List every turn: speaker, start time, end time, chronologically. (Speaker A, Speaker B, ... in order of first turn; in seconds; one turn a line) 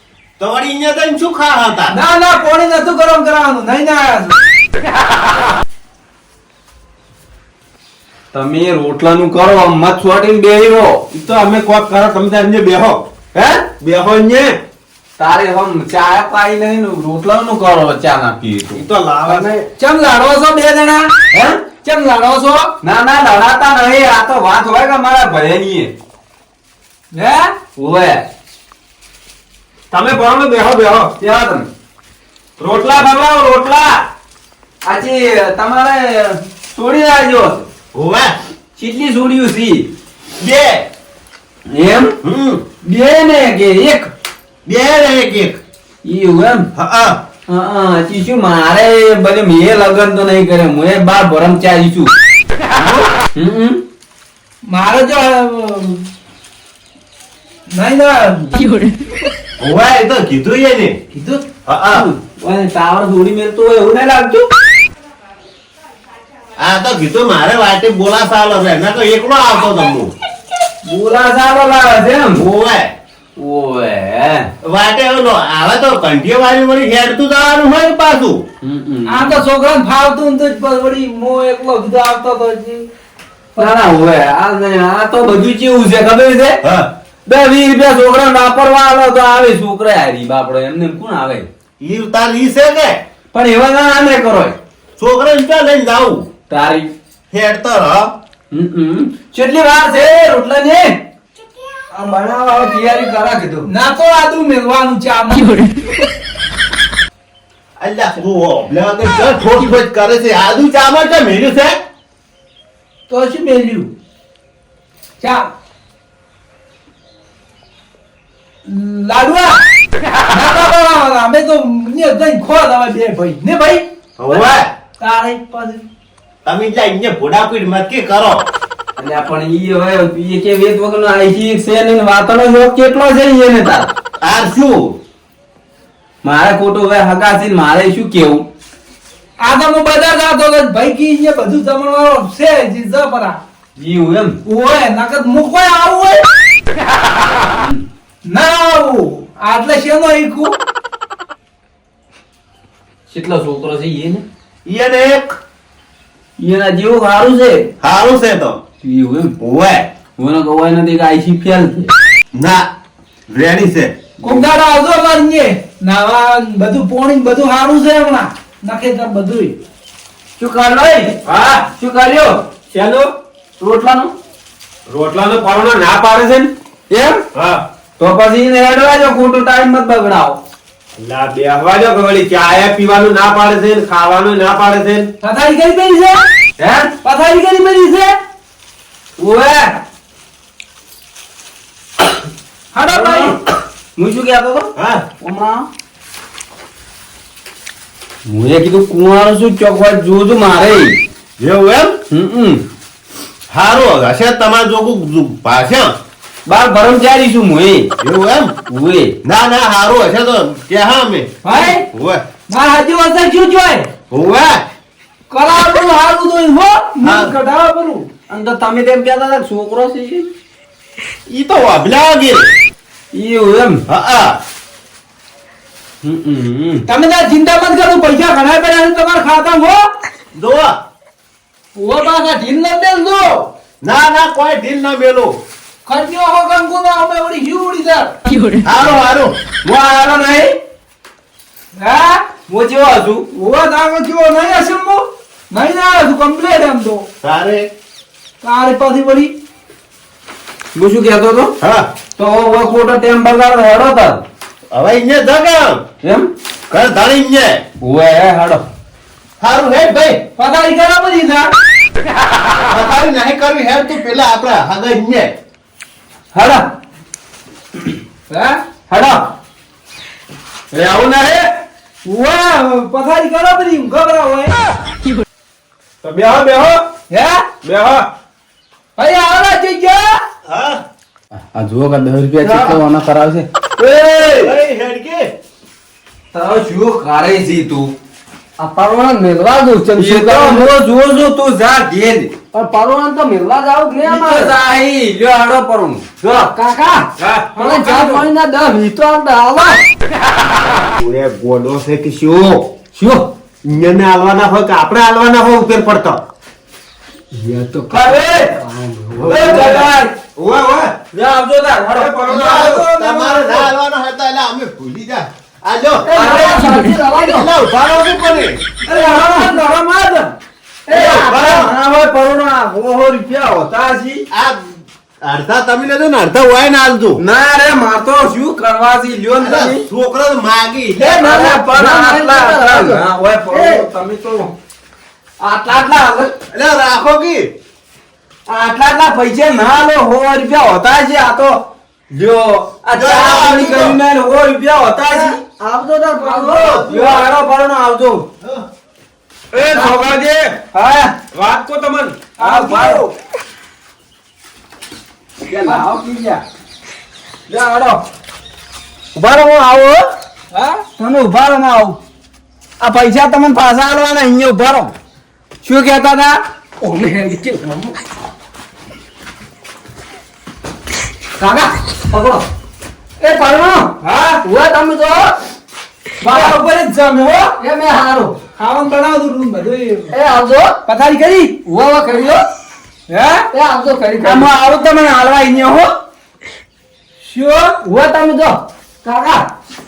Speaker A: 0.4-2.0
Speaker B: 1.9-4.4
Speaker C: 8.3-11.0
Speaker D: 11.1-13.0
Speaker C: 13.3-13.7
Speaker D: 13.8-14.6
Speaker C: 15.2-18.8
Speaker D: 18.8-19.5
Speaker E: 19.3-19.6
Speaker B: 19.8-21.1
Speaker C: 21.3-21.6
Speaker B: 21.8-22.7
Speaker C: 22.8-25.9
Speaker B: 27.1-27.5
Speaker C: 27.8-28.2
Speaker D: 29.9-31.1
Speaker C: 31.2-31.7
Speaker D: 32.6-33.8
Speaker C: 33.1-33.8
Speaker C: 34.8-37.7
Speaker A: 37.9-38.4
Speaker C: 38.8-39.9
Speaker A: 40.4-40.9
Speaker C: 41.7-42.1
Speaker A: 42.2-42.6
Speaker C: 42.8-44.1
Speaker A: 44.7-45.6
Speaker C: 46.0-46.7
Speaker A: 46.8-47.2
Speaker C: 47.5-52.1
Speaker A: 52.7-53.1
Speaker C: 53.4-53.8
Speaker B: 54.6-56.0
Speaker B: 57.7-58.8
Speaker A: 59.6-61.0
Speaker B: 61.1-61.4
Speaker A: 61.7-62.1
Speaker C: 61.9-64.5
Speaker A: 66.6-70.1
Speaker C: 70.8-72.4
Speaker A: 72.3-72.9
Speaker C: 73.4-74.5
Speaker A: 74.6-78.4
Speaker C: 78.6-79.4
Speaker B: 79.1-82.9
Speaker C: 83.6-86.6
Speaker A: 86.6-86.9
Speaker C: 87.2-91.5
Speaker A: 91.8-93.0
Speaker C: 93.3-94.6
Speaker A: 95.0-96.2
Speaker C: 96.5-96.9
Speaker A: 97.3-98.1
Speaker C: 98.5-101.0
Speaker E: 101.9-103.7
Speaker B: 103.7-105.7
Speaker A: 107.8-111.8
Speaker B: 113.1-113.9
Speaker B: 115.2-115.5
Speaker B: 118.7-119.6
Speaker B: 120.3-124.4
Speaker A: 124.2-124.7
Speaker B: 125.0-125.8
Speaker A: 126.5-128.4
Speaker C: 129.0-133.9
Speaker A: 134.2-135.0
Speaker C: 136.2-138.4
Speaker B: 139.4-143.4
Speaker C: 143.8-144.4
Speaker B: 144.4-146.2
Speaker B: 148.2-150.6
Speaker C: 153.1-154.2
Speaker A: 154.7-155.4
Speaker C: 156.4-157.7
Speaker A: 157.8-158.6
Speaker C: 158.8-159.3
Speaker A: 159.4-159.9
Speaker C: 160.2-161.9
Speaker A: 162.3-162.7
Speaker A: 163.3-164.0
Speaker B: 164.2-169.6
Speaker C: 170.4-172.4
Speaker D: 171.3-171.5
Speaker D: 172.7-173.1
Speaker C: 173.6-174.1
Speaker D: 174.9-176.5
Speaker C: 176.9-177.2
Speaker D: 177.3-177.6
Speaker C: 178.0-180.4
Speaker D: 181.0-185.1
Speaker B: 185.2-186.2
Speaker C: 186.6-186.9
Speaker B: 187.0-188.2
Speaker C: 189.2-189.8
Speaker B: 192.7-193.4
Speaker C: 192.9-193.4
Speaker C: 194.0-195.7
Speaker A: 194.8-195.0
Speaker C: 198.2-201.0
Speaker A: 201.4-202.0
Speaker C: 202.1-202.6
Speaker A: 203.5-205.9
Speaker C: 206.5-207.9
Speaker A: 208.0-208.5
Speaker C: 208.7-209.1
Speaker A: 209.2-212.2
Speaker B: 211.4-211.8
Speaker B: 212.5-213.9
Speaker A: 214.1-214.7
Speaker B: 215.3-218.1
Speaker A: 217.0-217.3
Speaker C: 218.3-220.2
Speaker A: 221.3-222.5
Speaker C: 223.1-223.8
Speaker A: 223.9-224.4
Speaker C: 226.0-226.8
Speaker B: 226.9-229.9
Speaker A: 230.3-230.8
Speaker B: 231.8-233.5
Speaker A: 233.8-235.4
Speaker B: 235.9-238.1
Speaker A: 238.6-239.4
Speaker C: 239.7-240.6
Speaker B: 241.8-242.3
Speaker C: 242.5-243.2
Speaker B: 243.3-247.1
Speaker A: 247.2-247.7
Speaker B: 248.4-249.3
Speaker C: 250.8-251.5
Speaker A: 251.6-251.9
Speaker C: 252.2-254.2
Speaker A: 254.7-255.8
Speaker C: 256.0-256.3
Speaker A: 256.7-257.6
Speaker C: 257.8-258.6
Speaker A: 259.4-260.2
Speaker B: 260.4-261.5
Speaker A: 262.7-265.3
Speaker C: 266.3-266.7
Speaker B: 268.3-268.6
Speaker C: 268.9-269.3
Speaker C: 270.7-271.5
Speaker B: 272.1-274.6
Speaker D: 276.0-276.8
Speaker B: 277.1-277.5
Speaker D: 277.6-278.1
Speaker B: 279.0-280.2
Speaker A: 280.5-280.8
Speaker C: 281.5-284.5
Speaker A: 284.3-285.3
Speaker C: 286.3-287.9
Speaker E: 288.6-290.7
Speaker C: 290.0-292.3
Speaker E: 292.5-294.5
Speaker C: 294.0-296.5
Speaker E: 296.5-299.8
Speaker D: 297.2-298.2
Speaker D: 300.9-302.7
Speaker E: 302.9-303.3
Speaker D: 303.6-306.2
Speaker E: 307.3-309.9
Speaker C: 307.9-308.5
Speaker D: 309.2-310.9
Speaker C: 309.3-310.1
Speaker C: 311.1-313.4
Speaker D: 312.0-312.9
Speaker A: 312.4-318.6
Speaker B: 313.0-313.4
Speaker E: 316.1-317.5
Speaker C: 316.1-316.6
Speaker C: 318.9-320.4
Speaker E: 318.9-319.6
Speaker C: 320.9-324.2
Speaker E: 320.9-321.2
Speaker A: 320.9-321.7
Speaker A: 324.3-327.2
Speaker C: 327.2-329.9
Speaker A: 329.4-331.2
Speaker C: 331.0-334.5
Speaker E: 331.2-333.0
Speaker C: 335.4-336.3
Speaker A: 336.5-337.5
Speaker C: 338.5-345.4
Speaker A: 342.9-344.0
Speaker E: 345.1-347.2
Speaker B: 346.2-347.1
Speaker C: 346.7-348.2
Speaker D: 349.5-350.6
Speaker C: 350.7-351.1
Speaker D: 351.3-352.2
Speaker B: 352.4-353.1
Speaker C: 352.4-353.1
Speaker C: 355.5-355.9
Speaker B: 355.6-356.4
Speaker B: 357.5-358.0
Speaker C: 359.1-360.1
Speaker B: 360.5-360.9
Speaker C: 361.0-362.0
Speaker C: 362.8-364.9
Speaker C: 365.6-366.4
Speaker E: 366.8-367.9
Speaker E: 371.4-372.4
Speaker E: 373.2-373.9
Speaker B: 374.0-374.4
Speaker E: 374.4-375.3
Speaker B: 376.2-377.6
Speaker E: 377.6-378.4
Speaker B: 378.6-380.1
Speaker E: 380.1-380.8
Speaker B: 380.9-381.6
Speaker E: 381.6-382.4
Speaker B: 383.1-383.5
Speaker E: 383.5-384.5
Speaker C: 384.2-385.9
Speaker B: 387.2-387.8
Speaker E: 387.9-389.4